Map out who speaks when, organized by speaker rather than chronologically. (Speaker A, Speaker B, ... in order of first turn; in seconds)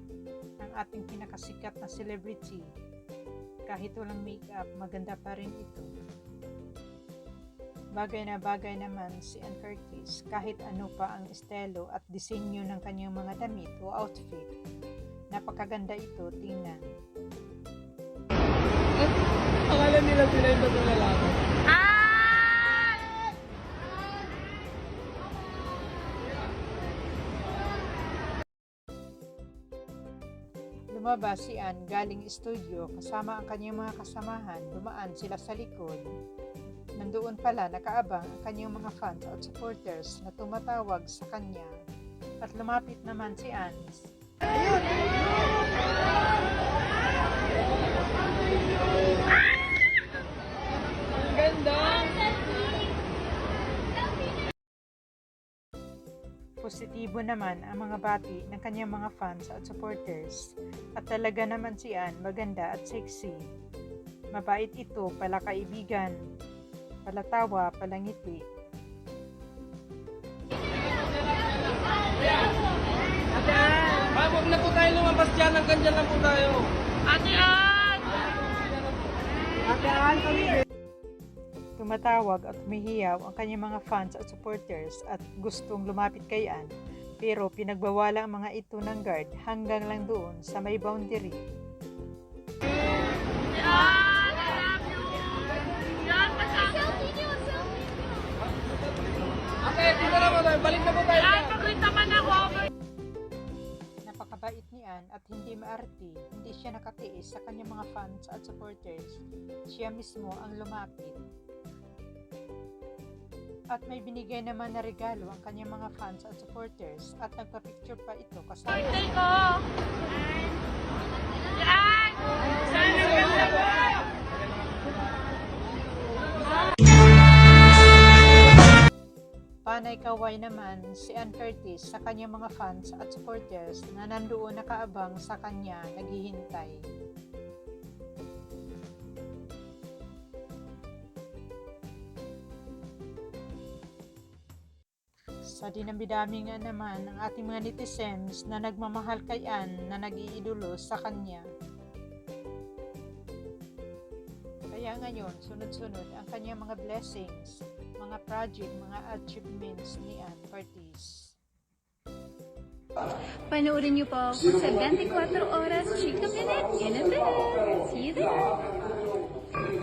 Speaker A: 0.6-2.7, 3.7-5.9, 8.0-14.5, 15.3-16.8, 30.9-36.1, 37.0-41.7, 42.4-44.0, 56.6-60.5, 61.0-63.4, 64.3-66.1, 67.1-68.4, 81.8-91.4, 104.0-109.2, 109.7-111.2, 113.7-119.6, 122.7-123.7, 129.7-136.8, 145.5-151.4, 154.7-161.2
Speaker B: 19.7-21.3, 74.3-76.6, 99.8-101.6
Speaker C: 21.8-22.9, 163.5-168.9